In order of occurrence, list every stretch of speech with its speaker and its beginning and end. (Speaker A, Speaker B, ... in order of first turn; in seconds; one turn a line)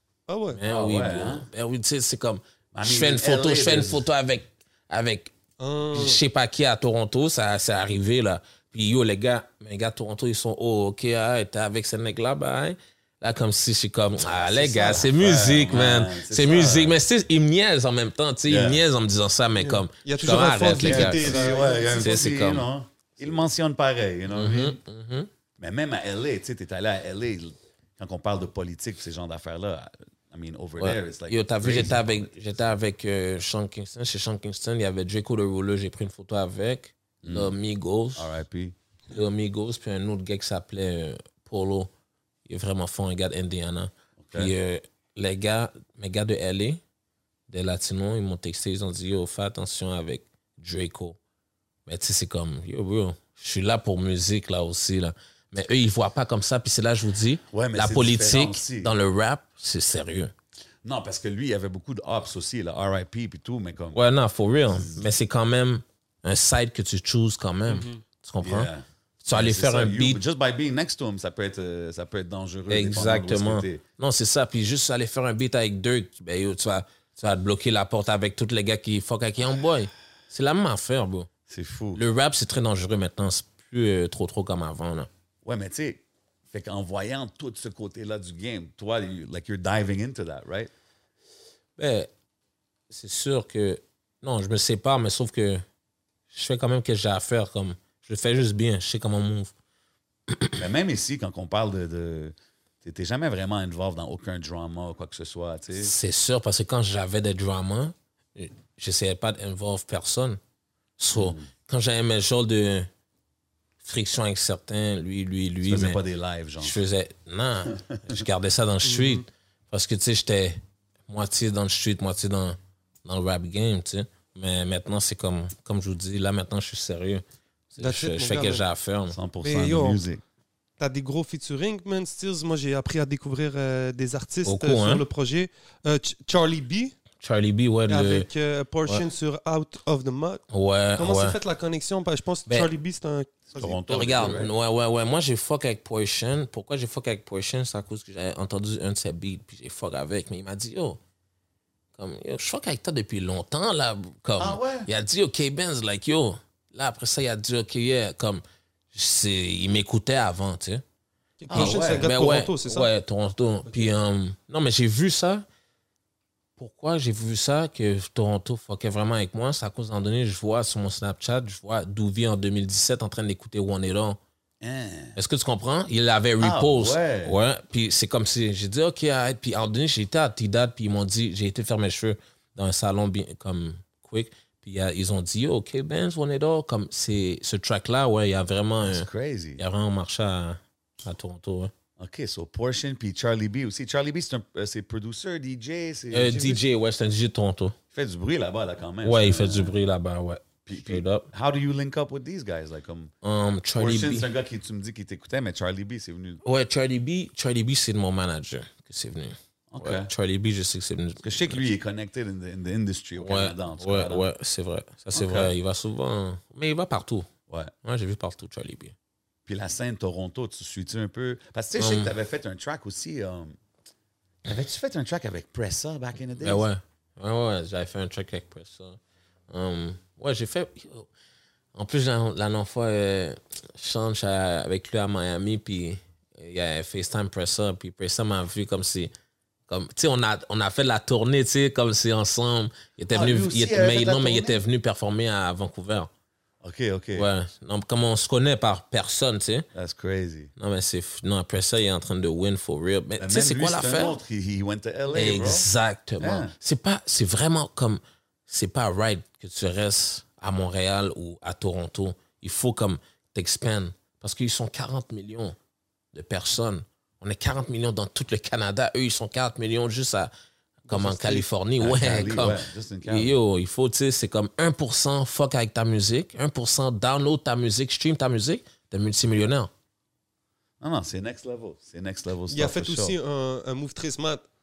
Speaker A: 0.3-0.6
Speaker B: 0.5-5.3
Speaker C: 0.7-1.5
Speaker C: 2.7-4.0
Speaker A: 5.6-6.2
Speaker B: 5.9-22.7
Speaker C: 14.3-17.0
Speaker C: 18.5-18.8
Speaker A: 19.6-22.1
Speaker C: 20.8-24.8
Speaker B: 24.3-25.3
Speaker C: 25.6-32.3
Speaker B: 30.8-38.3
Speaker C: 37.2-37.5
Speaker C: 38.1-38.8
Speaker B: 39.1-41.9
Speaker B: 42.5-46.8
Speaker C: 44.2-44.5
Speaker B: 47.5-51.2
Speaker B: 51.9-60.3
Speaker C: 57.5-58.9
Speaker C: 60.8-64.0
Speaker B: 63.9-68.7
Speaker C: 64.7-65.1
Speaker A: 67.7-68.0
Speaker C: 68.4-73.8
Speaker B: 69.2-70.2
Speaker B: 72.7-81.3
Speaker C: 81.5-82.0
Speaker B: 81.9-85.1
Speaker C: 85.4-90.7
Speaker B: 91.8-92.1
Speaker B: 92.9-95.6
Speaker B: 96.3-99.5
Speaker B: 100.3-100.6
Speaker C: 100.6-105.9
Speaker B: 105.8-110.4
Speaker B: 111.0-112.9
Speaker C: 111.1-111.5
Speaker B: 113.8-116.0
Speaker C: 115.6-116.8
Speaker B: 116.6-129.2
Speaker C: 117.8-118.2
Speaker A: 118.8-119.2
Speaker A: 127.8-128.6
Speaker C: 129.1-130.2
Speaker A: 129.4-130.0
Speaker A: 130.8-136.9
Speaker B: 134.4-135.0
Speaker B: 137.2-138.3
Speaker A: 137.9-140.4
Speaker B: 140.5-141.4
Speaker A: 141.0-143.8
Speaker C: 143.5-144.5
Speaker B: 143.9-151.0
Speaker B: 151.9-158.4
Speaker C: 154.4-154.9
Speaker B: 158.9-160.8
Speaker A: 161.4-162.9
Speaker C: 161.5-162.1
Speaker B: 161.5-165.4
Speaker B: 166.6-174.2
Speaker C: 174.6-175.2
Speaker B: 175.2-191.7
Speaker C: 176.4-177.3
Speaker C: 188.8-189.6
Speaker C: 192.0-196.4
Speaker B: 196.1-197.8
Speaker A: 196.3-196.6
Speaker C: 197.9-199.7
Speaker B: 199.0-201.3
Speaker C: 200.7-203.1
Speaker B: 203.2-204.3
Speaker C: 203.8-206.4
Speaker B: 206.4-211.7
Speaker C: 209.7-210.1
Speaker C: 211.2-214.2
Speaker B: 213.2-217.3
Speaker C: 215.1-215.5
Speaker B: 217.8-218.9
Speaker C: 219.4-223.6
Speaker B: 221.8-222.1
Speaker C: 224.4-226.7
Speaker B: 226.4-229.0
Speaker B: 229.5-231.1
Speaker B: 231.7-239.1
Speaker B: 239.7-246.1
Speaker C: 243.1-244.6
Speaker C: 246.6-247.3
Speaker B: 247.1-249.7
Speaker C: 249.7-250.5
Speaker B: 250.6-254.2
Speaker C: 253.2-255.7
Speaker B: 255.1-265.6
Speaker C: 256.2-256.5
Speaker B: 266.1-270.3
Speaker B: 270.9-279.7
Speaker A: 270.9-271.4
Speaker C: 271.8-273.4
Speaker C: 280.8-283.1
Speaker A: 282.5-284.4